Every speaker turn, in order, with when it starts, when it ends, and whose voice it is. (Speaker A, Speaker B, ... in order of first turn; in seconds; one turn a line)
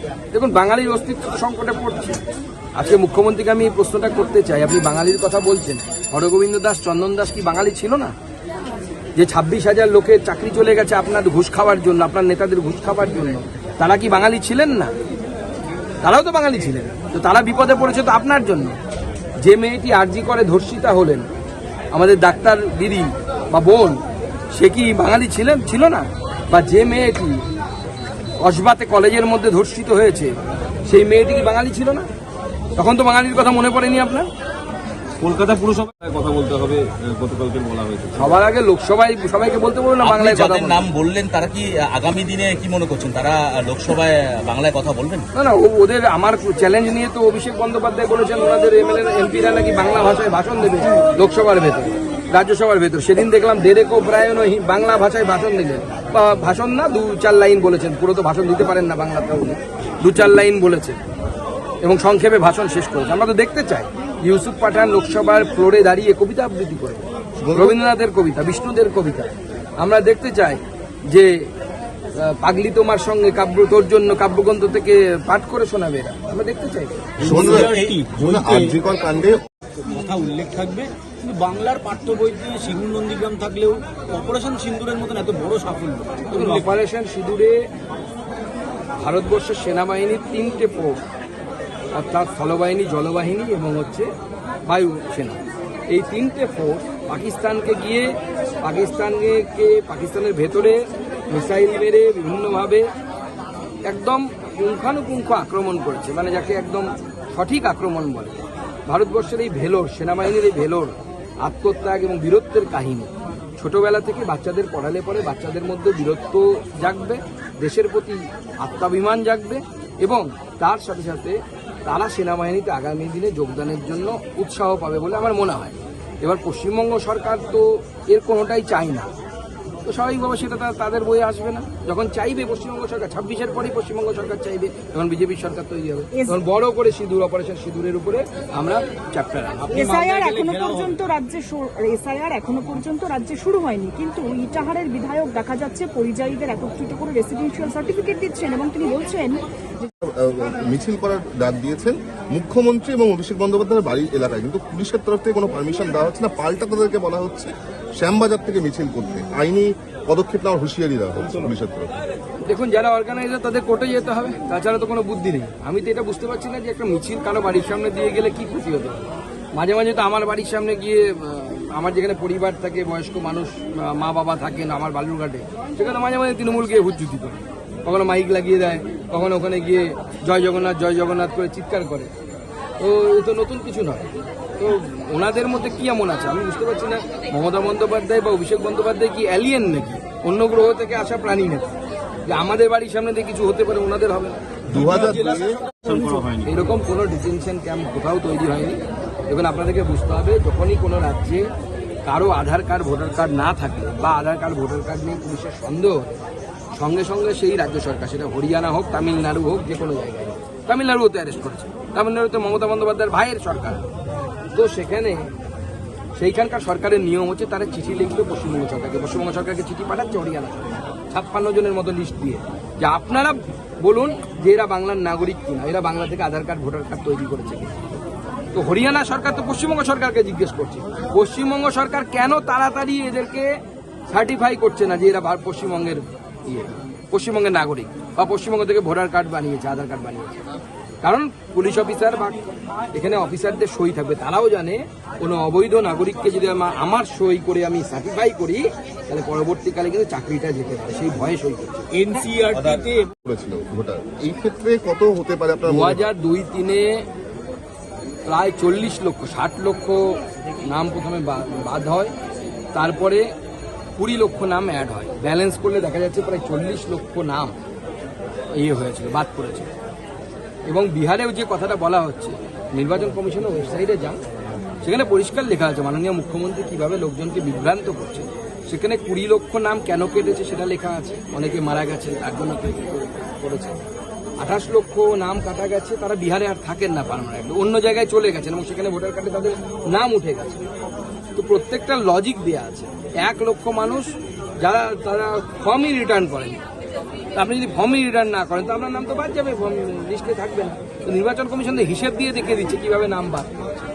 Speaker A: 0.3-2.2
Speaker A: 2.8-8.1
Speaker A: 9.2-14.9
Speaker A: 16.0-18.7
Speaker A: 19.4-21.2
Speaker A: 21.9-24.0
Speaker A: 24.5-27.4
Speaker A: 28.4-30.3
Speaker A: 30.8-32.0
Speaker A: 32.8-34.3
Speaker B: 35.2-38.3
Speaker A: 38.1-40.8
Speaker C: 40.0-45.3
Speaker A: 45.3-61.0
Speaker A: 61.8-69.3
Speaker D: 67.4-67.8
Speaker A: 69.8-71.3
Speaker A: 72.1-77.0
Speaker E: 77.2-78.8
Speaker D: 77.2-79.4
Speaker E: 79.8-86.7
Speaker A: 86.3-87.5
Speaker A: 89.0-91.0
Speaker A: 91.9-94.1
Speaker A: 94.7-95.4
Speaker A: 95.9-98.1
Speaker A: 98.6-100.8
Speaker A: 101.3-102.8
Speaker A: 103.8-129.1
Speaker A: 129.8-139.8
Speaker E: 139.6-141.0
Speaker F: 139.7-149.4
Speaker D: 150.0-161.9
Speaker A: 162.4-182.1
Speaker A: 182.8-191.7
Speaker A: 192.2-194.4
Speaker D: 194.7-195.6
Speaker E: 194.7-196.5
Speaker A: 196.4-201.5
Speaker A: 202.1-206.1
Speaker A: 206.7-213.8
Speaker A: 214.5-215.3
Speaker A: 216.2-227.8
Speaker A: 228.5-233.5
Speaker A: 234.1-240.4
Speaker A: 241.0-242.4
Speaker A: 242.9-251.8
Speaker E: 251.9-253.1
Speaker C: 252.5-252.8
Speaker D: 253.2-256.0
Speaker A: 255.7-257.0
Speaker A: 258.3-262.1
Speaker A: 262.7-263.2
Speaker A: 264.0-267.5
Speaker A: 268.5-269.7
Speaker A: 270.7-274.2
Speaker A: 274.8-283.8
Speaker A: 284.4-290.6
Speaker A: 291.4-294.1
Speaker A: 294.6-296.6
Speaker A: 297.3-303.7